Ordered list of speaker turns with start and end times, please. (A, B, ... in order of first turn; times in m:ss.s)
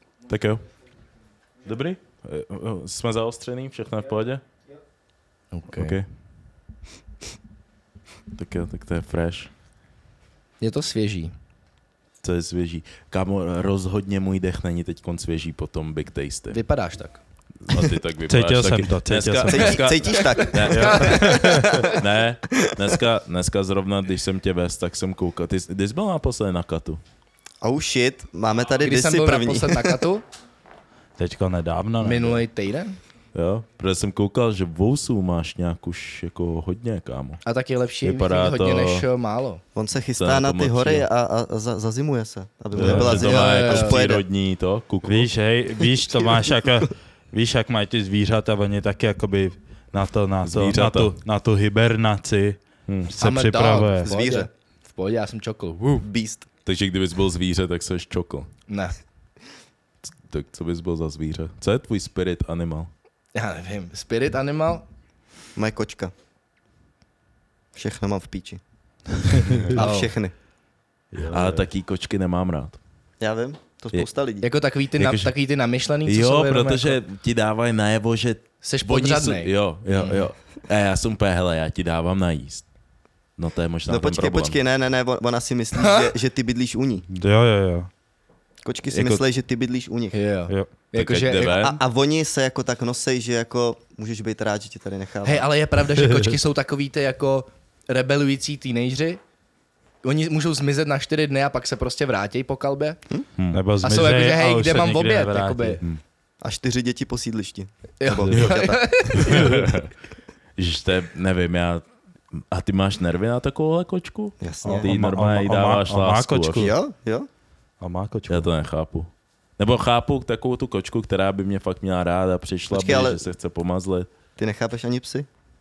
0:00.3-0:00.7 A
0:01.6-0:04.4 A
0:05.5-0:06.0 B
0:05.7-0:06.1 A
0:08.4-0:09.5 A
0:10.6-0:11.3 B
0:12.2-0:16.6 A
0:16.5-0:17.2 B
0:17.6-0:27.0 A
0:18.3-0:19.8 C
0:19.4-0:21.9 D
0:20.0-0:22.0 B
0:20.7-0:21.9 C
0:22.5-0:22.9 D
0:27.6-0:30.1 D
0:28.8-0:30.2 B
0:31.2-0:32.4 C
0:32.0-0:33.0 B
0:33.3-0:37.4 A
0:37.4-0:39.6 B
0:38.0-0:39.1 A
0:39.8-0:44.2 D
0:40.2-0:41.1 A
0:42.8-0:45.3 A
0:42.8-0:43.2 C
0:43.2-0:44.0 B
0:45.0-0:54.1 C
0:50.4-0:51.1 A
0:52.9-0:53.1 A
0:53.2-0:56.0 B
0:54.0-0:54.5 D
0:56.0-0:56.5 D
0:56.7-0:58.5 A
0:58.7-0:59.0 B
1:00.0-1:02.9 A
1:03.4-1:04.8 B
1:05.6-1:06.1 D
1:07.7-1:08.6 D
1:09.4-1:09.8 C
1:09.7-1:10.3 D
1:09.7-1:10.1 B
1:11.1-1:11.7 C
1:11.3-1:12.8 A
1:13.2-1:14.5 D
1:14.4-1:17.0 B
1:15.0-1:15.3 A
1:16.0-1:22.7 A
1:18.6-1:20.3 B
1:23.4-1:24.6 A
1:23.9-1:27.1 D
1:25.8-1:26.1 B
1:27.2-1:27.9 C
1:28.6-1:30.2 D
1:30.1-1:31.7 B
1:31.0-1:31.8 A
1:31.4-1:35.5 D
1:35.2-1:39.2 B
1:40.0-1:43.0 B
1:43.4-1:43.6 A
1:43.5-1:45.8 C
1:43.8-1:45.8 B
1:46.4-1:49.5 D
1:48.0-1:49.5 B
1:48.3-1:49.9 A
1:49.3-1:49.7 C
1:50.6-1:56.7 A
1:54.4-1:54.9 D
1:54.6-1:56.7 C
1:56.6-1:57.3 D
1:57.8-1:58.5 C
1:58.3-2:04.1 A
2:02.7-2:03.2 D
2:04.4-2:05.3 D